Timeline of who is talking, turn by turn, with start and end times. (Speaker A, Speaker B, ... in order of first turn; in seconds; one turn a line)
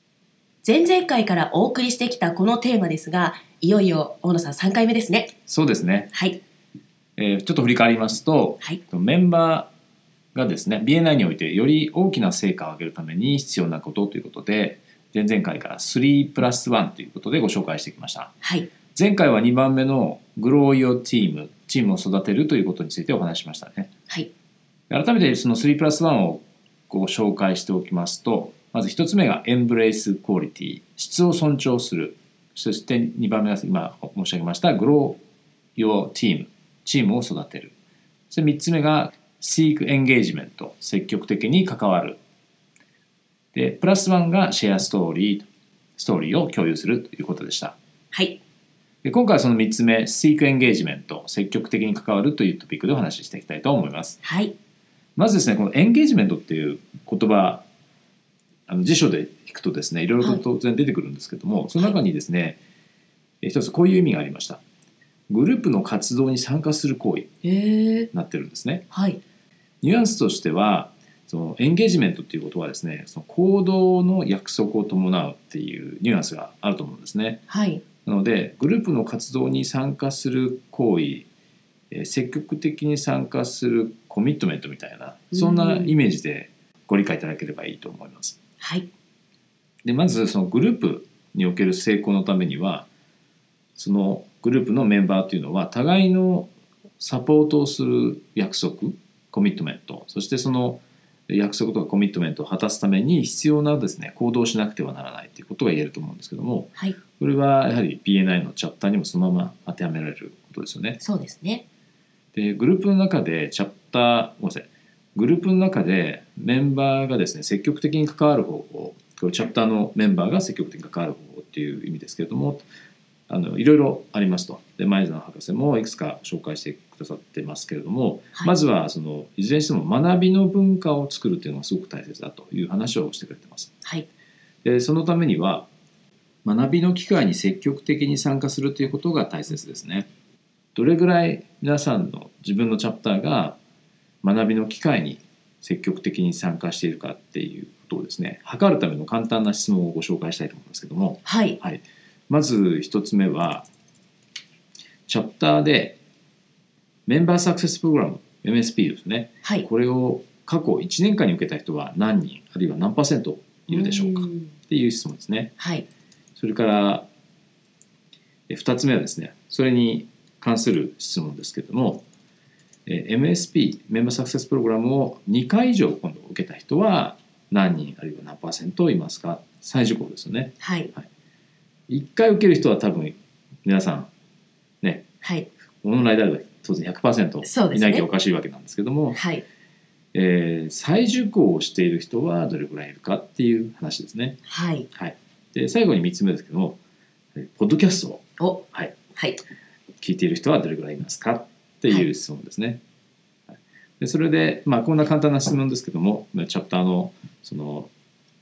Speaker A: 0.6-5.3
Speaker B: 5.5-6.1
Speaker A: 6.1-6.4
Speaker B: 7.2-9.7
Speaker B: 10.3-18.3
Speaker A: 18.4-18.7
Speaker B: 18.9-23.9
Speaker B: 24.9-35.2
Speaker B: 35.8-37.7
Speaker B: 38.3-42.2
Speaker B: 43.5-47.8
Speaker A: 48.1-48.4
Speaker B: 49.0-54.2
Speaker A: 54.2-54.5
Speaker B: 55.1-57.6
Speaker B: 58.7-62.6
Speaker B: 63.4-64.6
Speaker B: 65.3-67.3
Speaker A: 67.4-68.1
Speaker B: 68.1-68.8
Speaker A: 68.9-69.2
Speaker B: 69.8-77.4
Speaker A: 77.5-77.8
Speaker B: 78.0-81.3
Speaker B: 81.9-88.4
Speaker A: 85.3-86.0
Speaker A: 88.6-88.9
Speaker B: 89.8-92.9
Speaker B: 93.8-111.0
Speaker A: 111.0-111.6
Speaker B: 112.3-122.6
Speaker B: 123.3-133.7
Speaker B: 134.6-135.7
Speaker B: 136.4-140.1
Speaker B: 140.7-143.6
Speaker B: 144.2-153.7
Speaker A: 151.2-151.6
Speaker B: 155.1-156.0
Speaker B: 157.1-165.5
Speaker A: 163.7-164.5
Speaker A: 165.6-165.8
Speaker B: 166.3-167.1
Speaker B: 168.5-172.0
Speaker B: 172.8-181.1
Speaker A: 180.6-180.9
Speaker B: 181.9-184.1
Speaker B: 184.8-185.1
Speaker A: 185.2-185.5
Speaker B: 185.8-189.2
Speaker A: 187.4-188.1
Speaker A: 189.1-189.4
Speaker B: 190.1-194.4
Speaker A: 194.5-194.9
Speaker B: 194.9-196.8
Speaker B: 197.3-199.0
Speaker A: 198.4-199.4
Speaker B: 200.0-202.8
Speaker B: 204.0-207.9